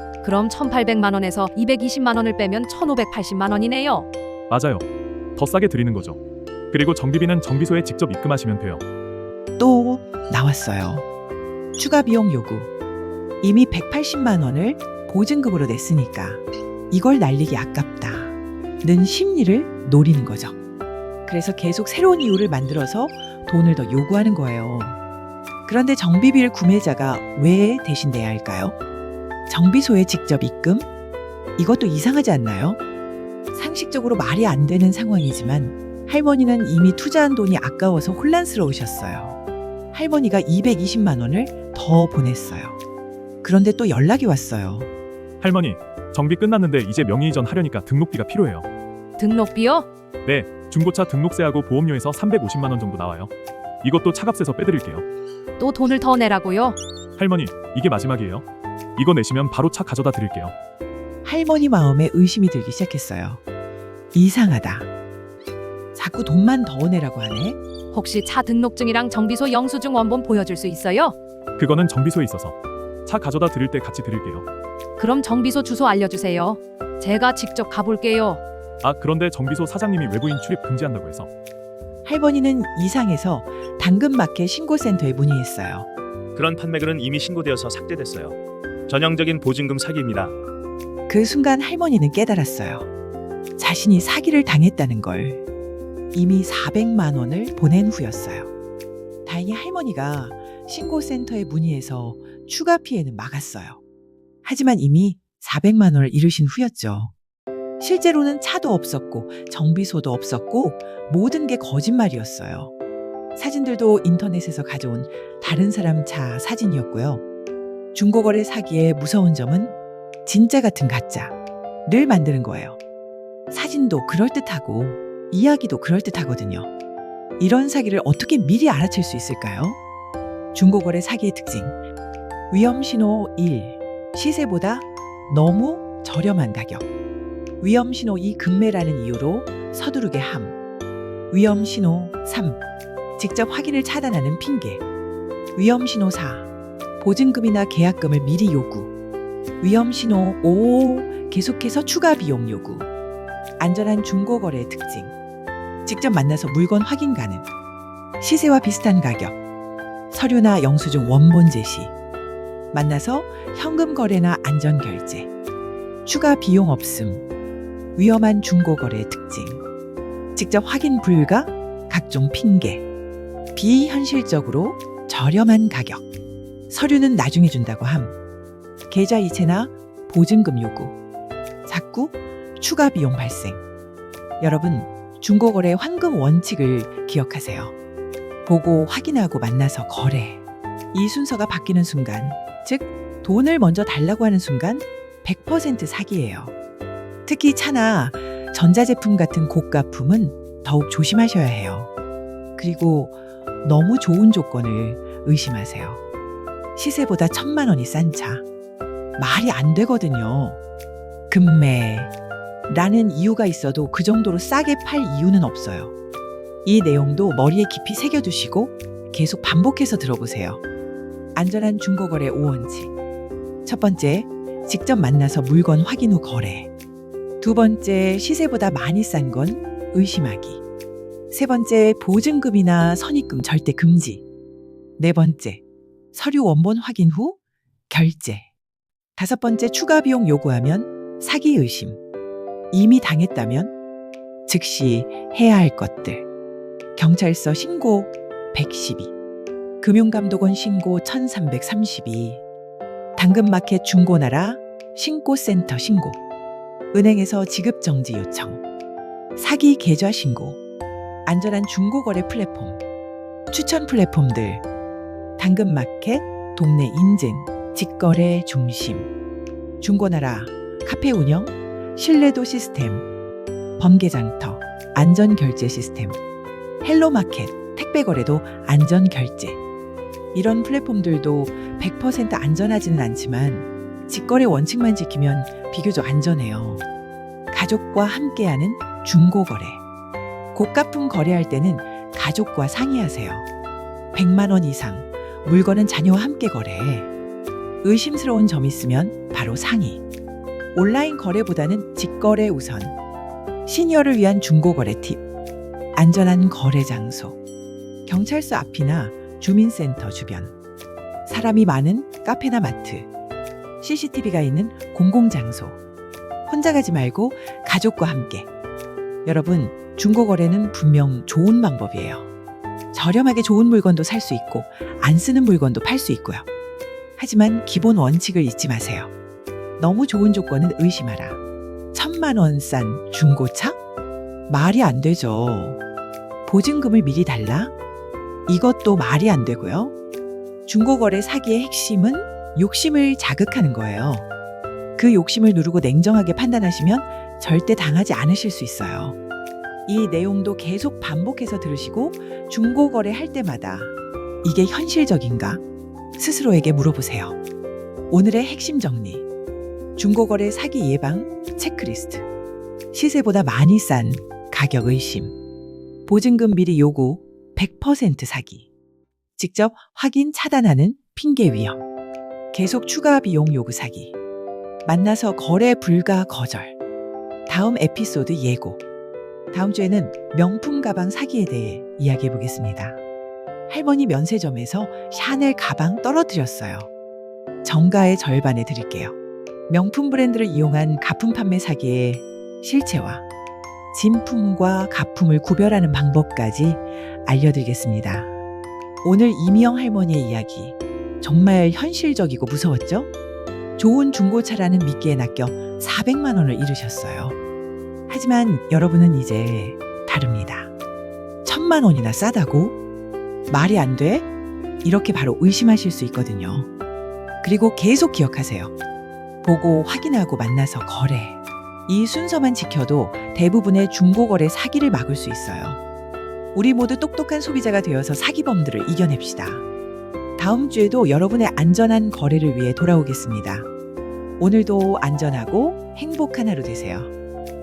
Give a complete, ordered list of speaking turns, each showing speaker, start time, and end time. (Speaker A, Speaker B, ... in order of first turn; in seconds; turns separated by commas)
Speaker A: 0.2-4.1, Speaker B: 4.5-6.2, Speaker B: 6.7-8.8, Speaker C: 9.6-11.1, Speaker C: 11.8-12.7, Speaker C: 13.4-20.6, Speaker C: 21.2-25.0, Speaker C: 25.6-28.8, Speaker C: 29.5-30.9, Speaker C: 31.6-32.8, Speaker C: 33.5-39.4, Speaker C: 39.9-42.8, Speaker C: 43.4-44.9, Speaker B: 45.4-48.7, Speaker A: 49.2-49.9, Speaker B: 50.2-53.3, Speaker B: 53.8-55.0, Speaker A: 55.6-56.8, Speaker B: 57.2-58.4, Speaker B: 59.0-60.5, Speaker C: 61.2-63.4, Speaker C: 64.1-64.9, Speaker C: 65.9-67.6, Speaker A: 67.9-71.2, Speaker B: 71.6-74.5, Speaker A: 75.0-78.4, Speaker B: 78.8-81.3, Speaker C: 82.0-85.9, Speaker D: 86.3-90.4, Speaker C: 91.1-92.9, Speaker C: 93.6-95.4, Speaker C: 96.1-98.5, Speaker C: 99.2-103.8, Speaker C: 104.4-107.1, Speaker C: 107.8-112.7, Speaker C: 113.3-117.2, Speaker C: 117.9-121.3, Speaker C: 121.8-122.8, Speaker C: 123.5-126.7, Speaker C: 127.4-129.8, Speaker C: 130.5-131.8, Speaker C: 132.5-136.9, Speaker C: 137.6-140.6, Speaker C: 141.3-142.6, Speaker C: 143.2-144.8, Speaker C: 145.6-146.5, Speaker C: 147.0-148.9, Speaker C: 149.6-152.9, Speaker C: 153.6-155.1, Speaker C: 155.8-157.5, Speaker C: 158.2-159.4, Speaker C: 160.1-161.9, Speaker C: 162.7-165.3, Speaker C: 166.0-167.2, Speaker C: 167.9-169.6, Speaker C: 170.3-172.8, Speaker C: 173.5-176.0, Speaker C: 176.7-178.2, Speaker C: 178.9-180.9, Speaker C: 181.7-183.6, Speaker C: 184.4-187.7, Speaker C: 188.4-190.4, Speaker C: 190.9-196.5, Speaker C: 197.2-201.9, Speaker C: 202.6-206.0, Speaker C: 206.8-208.4, Speaker C: 209.2-210.6, Speaker C: 211.3-212.1, Speaker C: 212.7-215.9, Speaker C: 216.6-220.6, Speaker C: 221.3-222.9, Speaker C: 223.6-226.7, Speaker C: 227.4-230.6, Speaker C: 231.3-234.2, Speaker C: 235.0-235.6, Speaker C: 236.1-237.4, Speaker C: 237.9-238.5, Speaker C: 239.2-242.0, Speaker C: 242.7-243.7, Speaker C: 244.5-246.2, Speaker C: 246.9-249.1, Speaker C: 249.8-252.4, Speaker C: 253.2-256.2, Speaker C: 256.9-258.6, Speaker C: 259.4-260.6, Speaker C: 261.2-262.8, Speaker C: 263.5-264.6, Speaker C: 265.4-269.1, Speaker C: 269.8-273.1, Speaker C: 273.8-276.2, Speaker C: 276.8-279.6, Speaker C: 280.3-286.8, Speaker C: 287.5-289.8, Speaker C: 290.5-293.5, Speaker C: 294.1-297.1, Speaker C: 297.8-300.0, Speaker C: 300.7-302.9, Speaker C: 303.6-305.2, Speaker C: 305.9-307.4, Speaker C: 308.1-310.5, Speaker C: 311.2-313.1, Speaker C: 313.8-315.8, Speaker C: 316.5-318.5, Speaker C: 319.2-322.3, Speaker C: 322.9-326.4, Speaker C: 327.2-329.1, Speaker C: 329.8-331.4, Speaker C: 331.9-333.8, Speaker C: 334.5-335.8, Speaker C: 336.5-337.7, Speaker C: 338.5-339.9, Speaker C: 340.7-344.2, Speaker C: 345.0-349.2, Speaker C: 349.9-355.6, Speaker C: 356.2-357.4, Speaker C: 358.1-359.2, Speaker C: 360.0-362.2, Speaker C: 362.9-365.3, Speaker C: 366.1-368.7, Speaker C: 369.4-371.8, Speaker C: 372.5-374.1, Speaker C: 374.8-376.8, Speaker C: 377.5-378.8, Speaker C: 379.5-383.0, Speaker C: 383.7-386.9, Speaker C: 387.6-389.1, Speaker C: 389.7-393.2, Speaker C: 393.9-398.3, Speaker C: 399.0-403.1, Speaker C: 403.8-407.4, Speaker C: 408.1-410.7, Speaker C: 411.4-412.8, Speaker C: 413.5-414.3, Speaker C: 414.8-416.7, Speaker C: 417.4-418.7, Speaker C: 419.4-425.8, Speaker C: 426.5-429.6, Speaker C: 430.4-433.7, Speaker C: 434.4-437.1